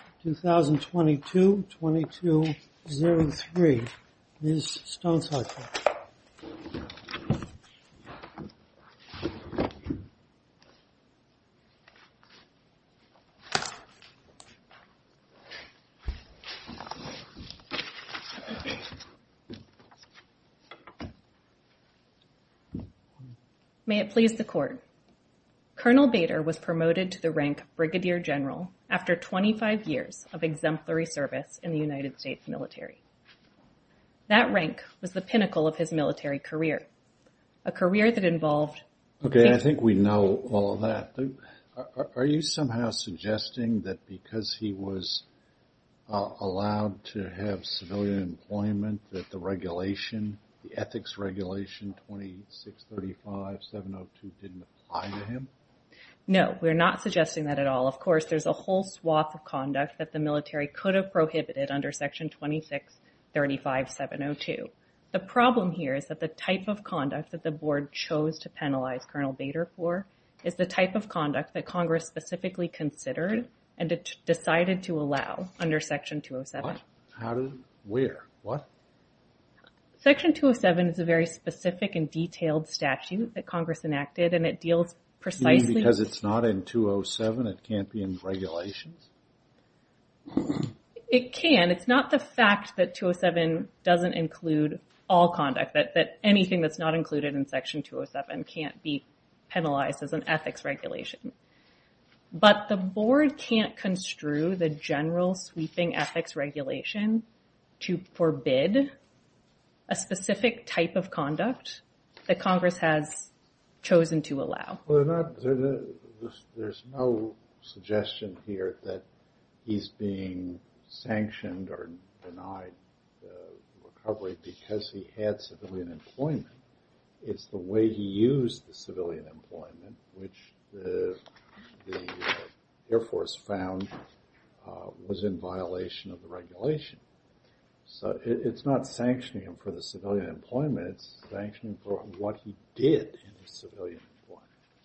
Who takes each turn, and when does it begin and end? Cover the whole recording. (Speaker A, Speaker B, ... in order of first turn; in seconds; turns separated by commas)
Speaker A: 0.2-5.7, Speaker B: 23.9-24.8, Speaker B: 25.8-33.0, Speaker B: 34.3-36.9, Speaker B: 37.6-38.8, Speaker C: 39.2-45.2, Speaker C: 46.1-55.5, Speaker B: 56.3-76.8, Speaker C: 76.6-78.7, Speaker B: 80.0-85.9, Speaker C: 85.4-89.1, Speaker B: 91.1-101.3, Speaker B: 102.3-107.2, Speaker B: 107.8-108.9, Speaker B: 109.9-113.3, Speaker B: 113.8-114.8, Speaker C: 114.8-119.0, Speaker C: 119.6-126.6, Speaker C: 127.2-131.2, Speaker C: 131.8-133.9, Speaker C: 134.6-137.0, Speaker C: 137.8-144.4